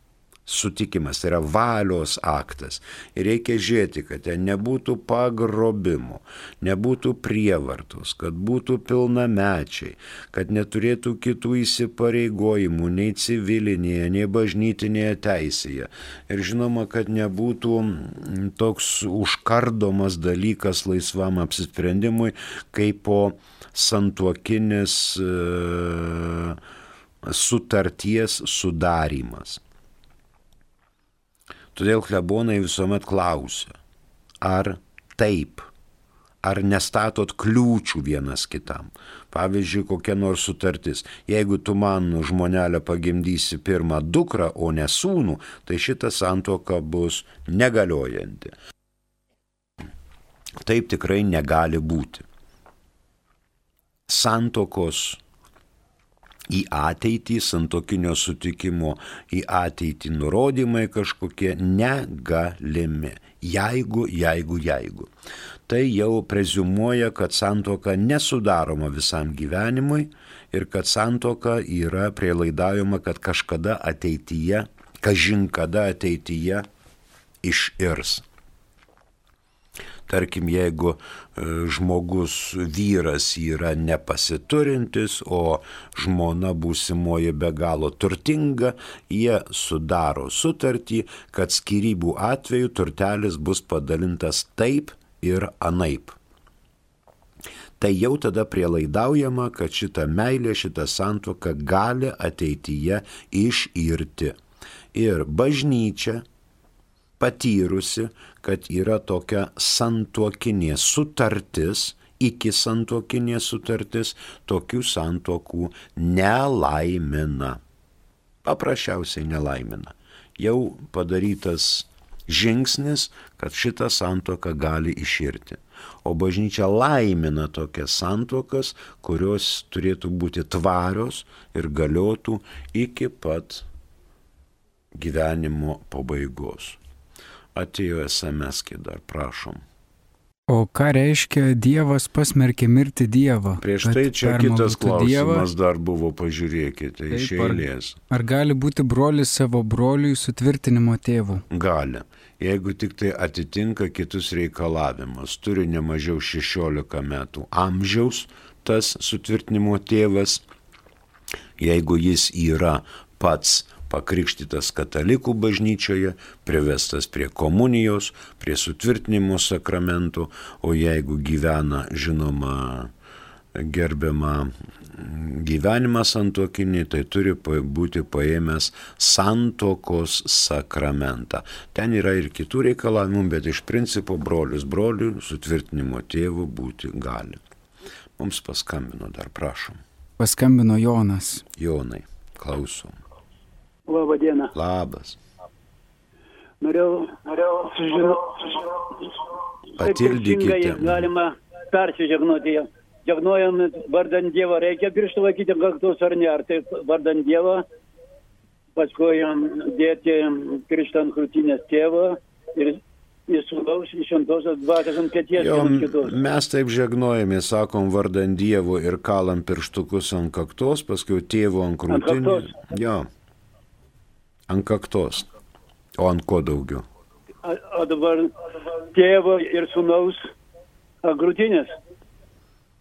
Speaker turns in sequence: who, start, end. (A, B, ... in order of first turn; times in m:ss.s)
0:00.4-0:26.6 A
0:27.2-0:29.6 A
0:31.7-0:33.7 A
0:34.4-0:35.7 A
0:36.4-0:48.5 A
0:50.6-0:52.2 A
0:54.1-0:55.2 A
0:56.5-1:05.1 A
1:05.7-1:16.6 A
1:17.4-1:18.2 A
1:20.1-1:36.2 A
1:37.8-1:44.3 A
1:44.9-1:46.2 A
1:47.2-1:57.6 A
1:58.4-2:13.6 A
2:14.9-2:16.8 A
2:17.5-2:19.6 A
2:20.5-2:25.4 B
2:23.6-2:28.0 A
2:27.1-2:31.4 B
2:31.5-2:40.4 A
2:41.6-2:52.9 A
2:53.5-3:07.4 A
3:08.2-3:09.8 A
3:10.2-3:11.4 B
3:11.6-3:13.0 A
3:13.9-3:14.5 C
3:14.5-3:15.2 A
3:16.6-3:27.6 C
3:19.8-3:21.1 A
3:28.8-3:36.1 C
3:35.3-3:43.1 A
3:41.9-3:42.5 C
3:44.5-3:45.3 A
3:46.0-3:46.8 A
3:47.4-3:48.3 C
3:48.9-3:50.3 C
3:51.0-3:51.7 C